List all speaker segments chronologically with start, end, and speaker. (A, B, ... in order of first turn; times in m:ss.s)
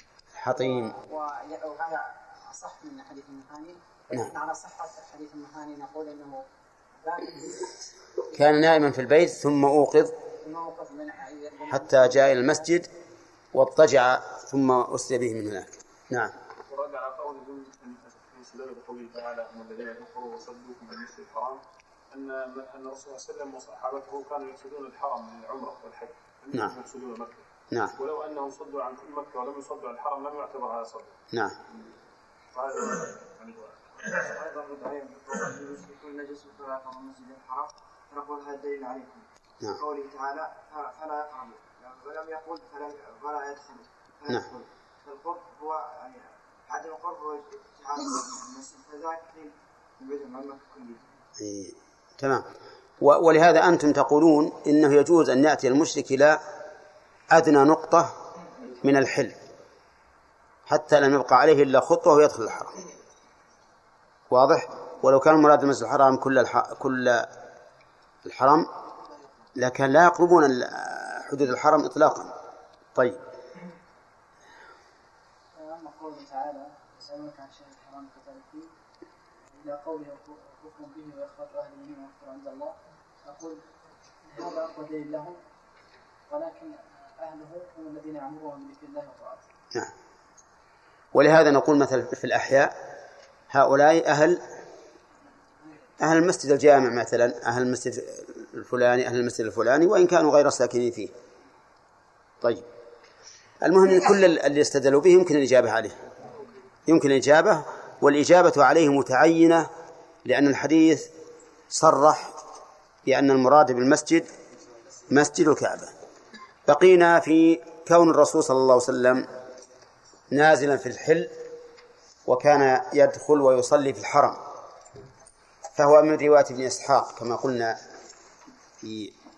0:00.4-0:00.9 A
0:00.5-0:06.5 B
0:07.0-0:07.7 B
0:08.3-0:10.1 A
0:10.4-0:12.4 B
0:11.7-0:12.9 A
0:13.5-0:16.3 A
0:16.7-0:31.1 C
0:32.5-0:34.1 C
0:34.1-0:51.0 D
0:51.4-0:52.5 A
0:53.0-0:56.4 A
0:57.3-0:58.1 A
0:58.8-0:59.4 A
1:00.7-1:02.8 A
1:04.3-1:07.3 A
1:08.3-1:08.7 A
1:09.6-1:12.3 A
1:13.0-1:13.2 A
1:15.6-1:18.7 B
1:19.5-1:23.6 B
1:24.2-1:25.4 B
1:26.3-1:29.5 B
1:31.2-1:32.7 A
1:33.5-1:34.4 A
1:36.0-1:41.1 A
1:43.6-1:46.0 A
1:46.9-1:49.7 A
1:50.3-1:51.1 A
1:51.7-1:52.4 A
1:53.1-1:54.3 A
1:55.1-1:55.9 A
1:56.7-1:59.3 A
2:00.3-2:01.3 A
2:02.3-2:04.4 A
2:05.8-2:07.8 A
2:08.8-2:09.1 A